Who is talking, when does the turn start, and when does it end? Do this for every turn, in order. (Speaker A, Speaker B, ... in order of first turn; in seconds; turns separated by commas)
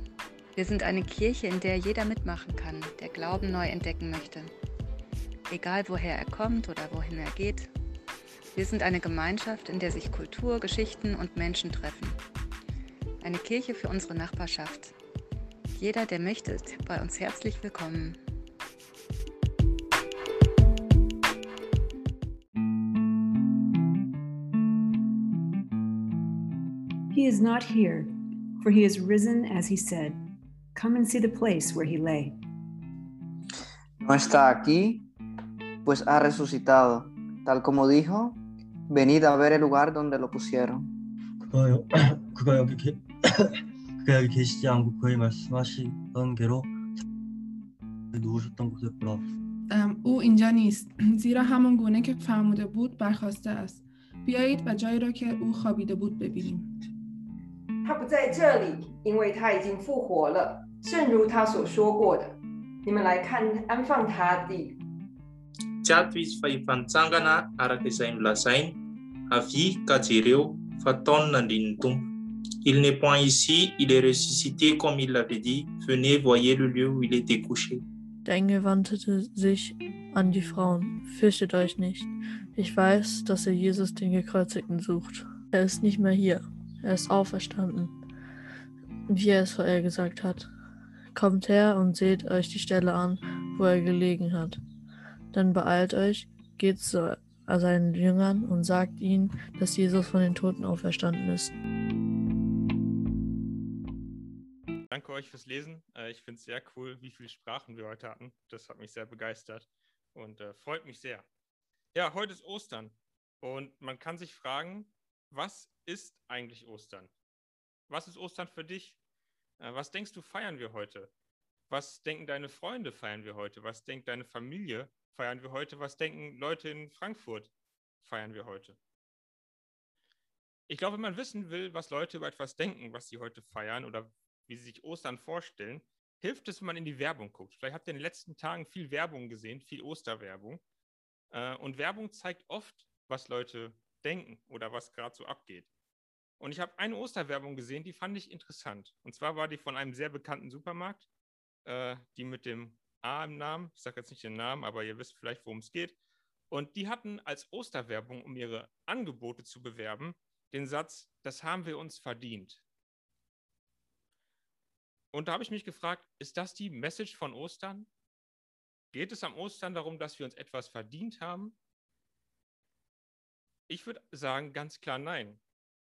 Speaker A: 0.6-4.5, Speaker A: 5.5-7.6, Speaker A: 8.6-12.2, Speaker A: 13.2-14.9, Speaker A: 15.8-18.1, Speaker B: 27.1-30.2, Speaker B: 30.7-32.4, Speaker C: 34.0-35.0, Speaker C: 35.8-38.4, Speaker C: 38.9-40.9, Speaker D: 41.4-46.7, Speaker D: 48.1-49.2, Speaker E: 49.7-56.6, Speaker F: 57.8-64.8, Speaker G: 65.8-68.8, Speaker G: 69.3-72.1, Speaker G: 72.6-77.8, Speaker H: 78.2-87.9, Speaker H: 89.1-90.5, Speaker H: 91.1-94.6, Speaker H: 95.3-101.5, Speaker I: 104.9-111.2, Speaker I: 111.9-117.1, Speaker I: 117.9-119.0, Speaker I: 119.6-121.1, Speaker I: 121.7-128.8, Speaker I: 130.7-140.6, Speaker I: 141.3-145.7, Speaker I: 146.4-151.1, Speaker I: 151.6-156.0, Speaker I: 156.5-162.6, Speaker I: 165.1-167.9, Speaker I: 168.9-171.6, Speaker I: 173.7-175.4